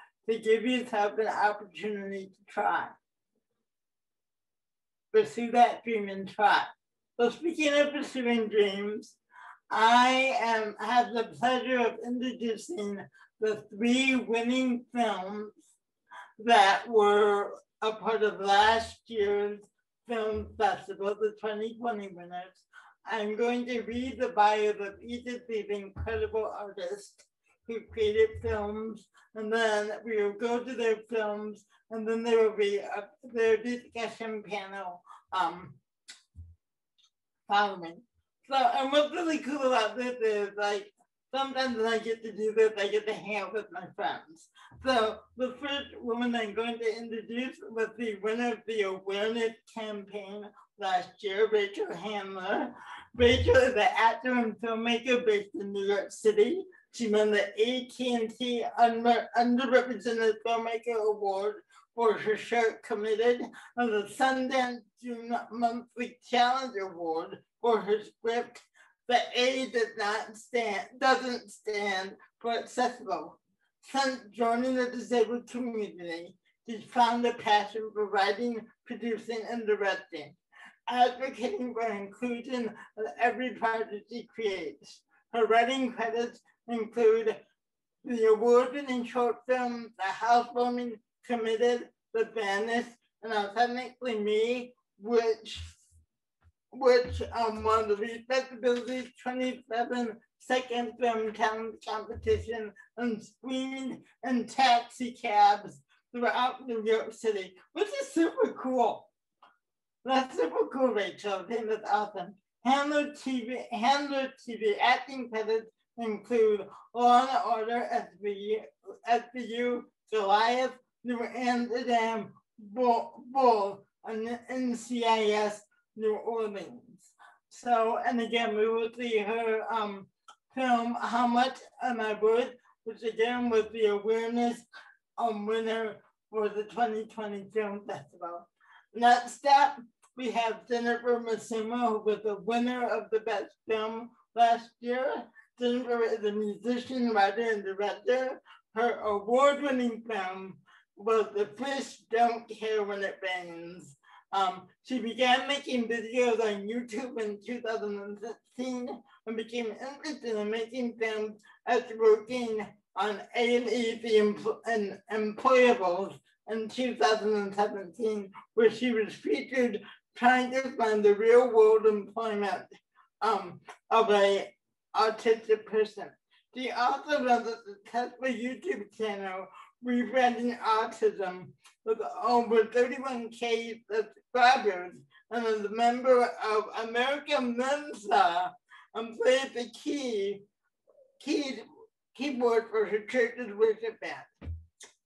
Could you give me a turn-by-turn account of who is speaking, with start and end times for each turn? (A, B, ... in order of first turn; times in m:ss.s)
0:00.2-0:02.9 A
0:05.1-0:09.2 A
0:09.7-0:15.5 A
0:16.4-0:35.8 A
0:37.5-1:20.4 A
1:20.9-1:27.4 A
1:28.0-1:35.7 A
1:36.7-1:49.1 A
1:50.0-2:14.6 A
2:15.2-2:52.7 A
2:53.2-3:10.4 A
3:11.2-3:14.3 A